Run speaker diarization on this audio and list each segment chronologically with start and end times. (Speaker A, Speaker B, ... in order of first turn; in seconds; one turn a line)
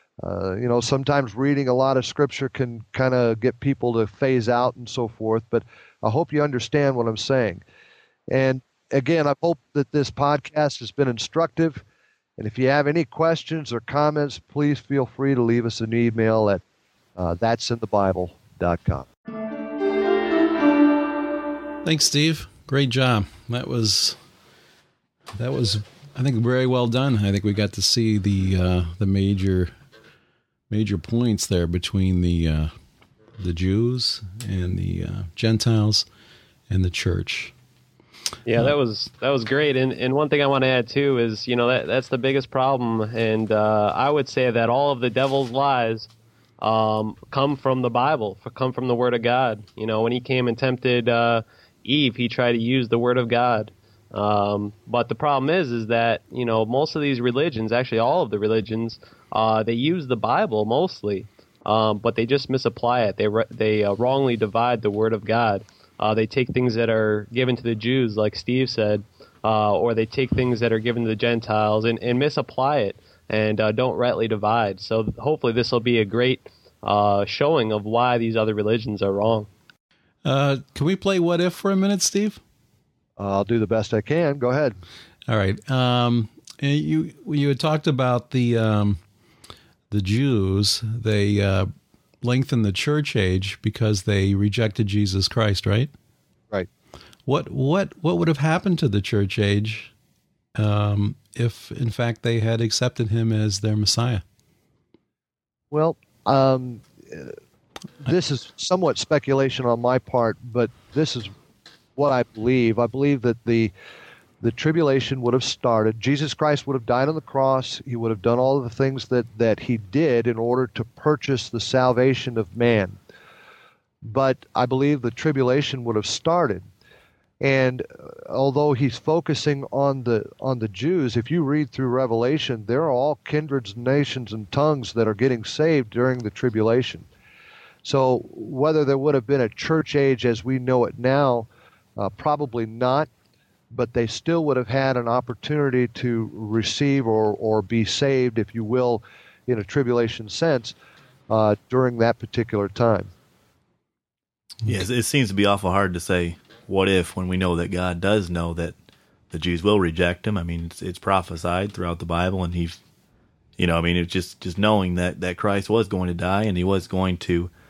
Speaker A: 0.2-7.6
Speaker A: 8.3-11.8
Speaker A: 12.4-16.6
Speaker A: 17.2-19.1
Speaker B: 21.8-24.2
Speaker B: 25.4-29.7
Speaker B: 30.7-32.7
Speaker B: 33.4-36.1
Speaker B: 36.7-37.5
Speaker C: 38.5-46.1
Speaker C: 46.6-79.5
Speaker B: 80.2-82.4
Speaker A: 83.2-84.8
Speaker B: 85.3-89.0
Speaker B: 89.9-91.7
Speaker B: 92.2-95.9
Speaker B: 97.3-99.9
Speaker B: 100.6-104.2
Speaker A: 105.7-107.3
Speaker A: 108.0-111.3
Speaker A: 112.0-113.7
Speaker A: 114.4-123.0
Speaker A: 124.0-126.7
Speaker A: 127.4-137.1
Speaker A: 137.8-143.1
Speaker A: 143.7-150.8
Speaker A: 151.3-153.1
Speaker D: 154.7-158.8
Speaker D: 159.3-162.8
Speaker D: 163.6-167.5